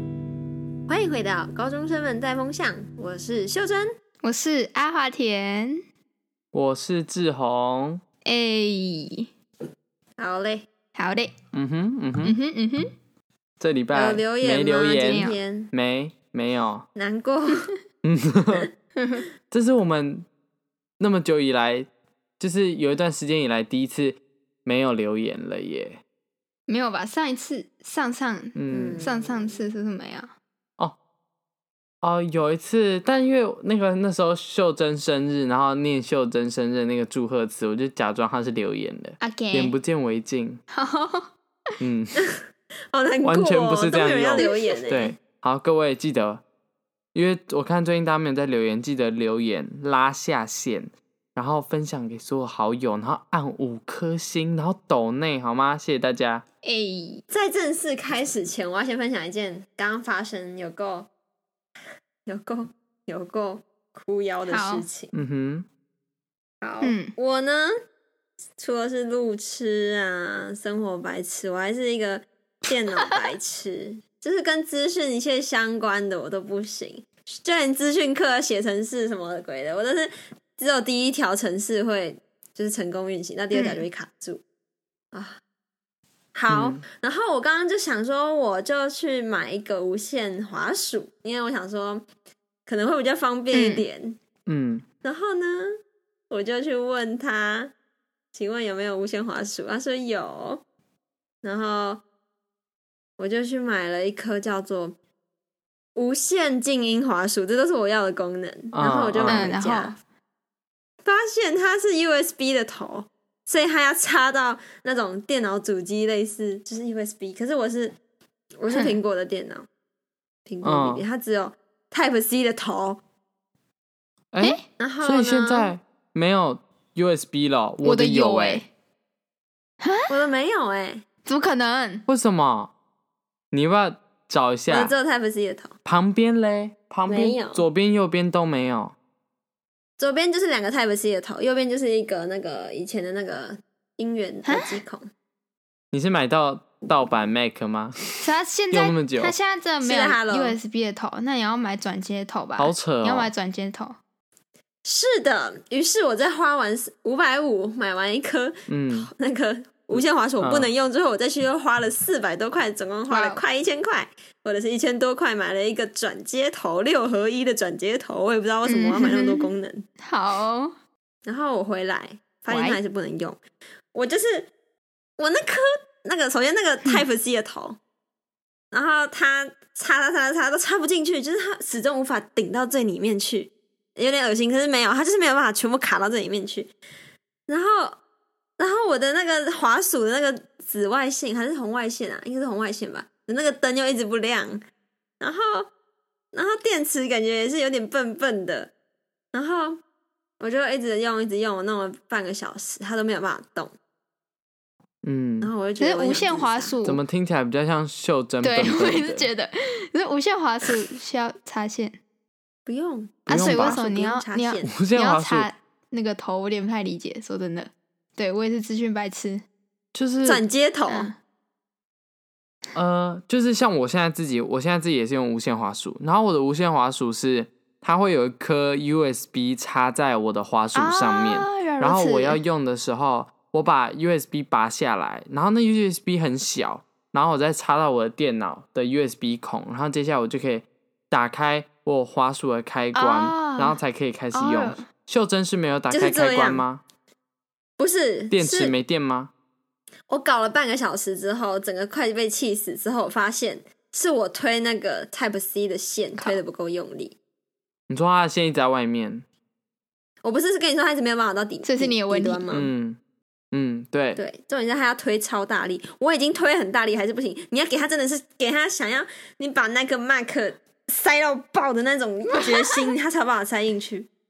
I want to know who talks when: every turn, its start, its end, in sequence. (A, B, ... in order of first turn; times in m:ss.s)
0:00.9-0:03.9 A
0:04.2-0:05.8 B
0:06.5-0:08.0 C
0:08.2-0:09.3 B
0:10.2-0:10.7 A
0:11.0-0:11.3 B
0:11.5-0:12.4 C
0:12.2-0:12.9 B
0:13.6-0:16.9 C
0:13.9-0:15.7 A
0:15.0-0:15.4 B
0:17.0-0:17.7 A
0:18.0-0:18.7 C
0:19.0-0:19.2 B
0:19.5-0:20.3 C
0:21.0-0:21.9 C
0:22.4-0:26.0 C
0:26.7-0:30.3 B
0:28.6-0:29.0 C
0:28.7-0:29.6 A
0:32.0-0:40.6 C
0:39.2-0:39.8 B
0:40.7-0:41.3 B
0:41.8-0:42.2 C
0:42.9-0:45.1 A
0:43.2-0:46.4 C
0:47.1-0:56.4 C
0:56.6-0:57.2 B
0:57.3-1:01.1 A
1:02.3-1:05.1 A
1:04.5-1:04.9 B
1:05.1-1:05.7 C
1:06.6-1:07.7 A
1:06.8-1:07.1 B
1:08.6-1:24.4 A
1:23.5-1:23.8 B
1:25.1-1:25.4 A
1:26.3-1:32.1 A
1:26.5-1:26.8 C
1:32.7-1:34.2 A
1:33.5-1:33.8 B
1:34.5-1:34.8 C
1:35.0-1:35.7 A
1:36.3-1:37.7 A
1:38.3-1:40.6 A
1:41.4-1:42.0 A
1:43.2-1:45.0 A
1:46.0-1:50.0 A
1:48.7-1:49.5 C
1:49.3-1:50.0 B
1:51.0-1:58.0 A
1:58.6-1:59.7 A
1:58.7-1:59.0 B
2:00.5-2:03.0 A
2:00.6-2:01.0 C
2:04.3-2:08.6 C
2:04.8-2:05.7 A
2:07.8-2:08.7 B
2:09.8-2:10.1 B
2:10.1-2:11.0 A
2:11.3-2:12.0 B
2:12.1-2:12.7 C
2:13.5-2:14.9 C
2:14.7-2:15.8 A
2:15.8-2:19.0 C
2:17.1-2:17.6 A
2:20.0-2:25.1 A
2:24.5-2:24.8 B
2:25.9-2:28.0 C
2:28.2-2:34.0 B
2:28.7-2:29.4 C
2:29.8-2:30.6 A
2:32.6-2:33.3 C
2:34.8-2:49.8 A
2:38.7-2:39.1 C
2:40.4-2:40.7 C
2:43.1-2:43.4 B
2:48.6-2:49.5 B
2:50.0-2:50.7 B
2:51.3-2:53.4 A
2:52.5-2:52.8 B
2:53.9-2:54.5 A
2:55.2-2:57.8 A
2:58.7-3:06.7 A
3:07.5-3:08.0 A
3:08.6-3:14.6 A
3:15.2-3:15.7 A
3:16.3-3:18.7 A
3:19.3-3:19.8 A
3:20.4-3:23.7 A
3:25.0-3:25.5 C
3:25.4-3:26.7 A
3:25.8-3:27.0 B
3:26.8-3:29.3 C
3:28.4-3:32.0 B
3:32.7-3:34.7 A
3:33.3-3:39.4 B
3:33.3-3:33.8 C
3:34.6-3:35.5 C
3:40.0-3:40.4 C
3:40.2-3:41.1 A
3:40.9-3:41.2 B
3:42.8-4:06.8 C
3:50.8-3:52.4 B
4:03.0-4:03.8 B
4:04.3-4:04.8 B
4:05.9-4:06.6 A
4:07.8-4:08.7 A
4:08.3-4:09.3 C
4:10.1-4:17.2 A
4:17.9-4:19.2 C
4:20.2-4:22.7 A
4:21.6-4:22.4 B
4:22.5-4:23.0 C
4:23.5-4:24.2 C
4:24.2-4:34.1 A